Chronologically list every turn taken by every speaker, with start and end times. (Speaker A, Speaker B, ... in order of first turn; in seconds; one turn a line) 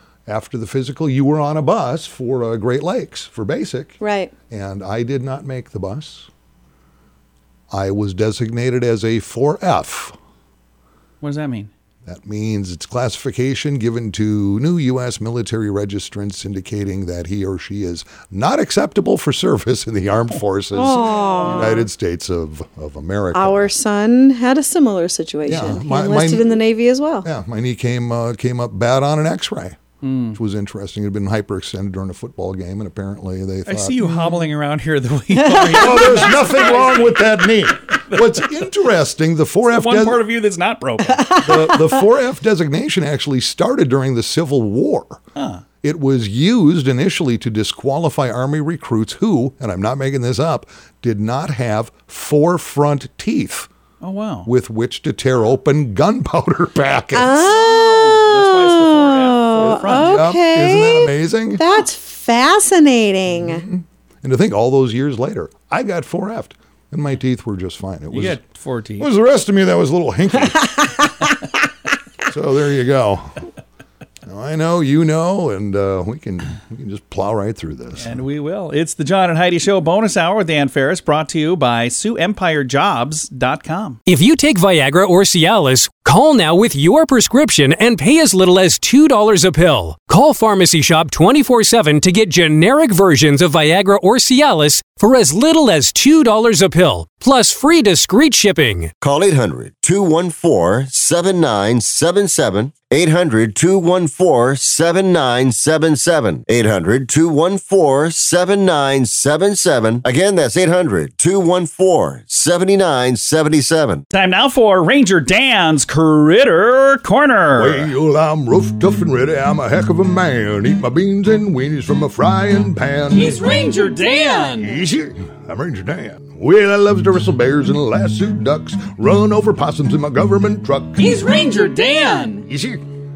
Speaker A: 0.2-6.3
Speaker B: 4.0-4.3
Speaker A: 7.7-10.1
Speaker C: 11.2-11.7
Speaker A: 12.0-23.7
Speaker B: 20.7-21.9
Speaker C: 21.4-21.7
Speaker B: 23.3-27.3
Speaker A: 25.4-26.6
Speaker A: 27.2-29.8
Speaker C: 30.0-30.4
Speaker A: 30.3-34.4
Speaker C: 33.6-38.5
Speaker B: 35.5-36.3
Speaker A: 35.6-40.2
Speaker C: 39.6-41.5
Speaker A: 41.3-45.2
Speaker C: 45.4-45.6
Speaker A: 45.8-53.7
Speaker C: 54.0-54.5
Speaker A: 54.4-57.5
Speaker B: 57.1-63.6
Speaker C: 57.4-60.1
Speaker A: 59.6-61.6
Speaker A: 63.3-68.4
Speaker C: 68.1-69.1
Speaker A: 69.0-70.9
Speaker A: 72.2-73.5
Speaker A: 74.2-78.2
Speaker C: 78.0-84.0
Speaker D: 84.1-98.9
Speaker E: 99.0-114.0
Speaker C: 114.1-117.9
Speaker A: 117.5-123.6
Speaker C: 123.1-124.8
Speaker A: 124.6-131.2
Speaker C: 131.0-132.5
Speaker A: 132.4-132.8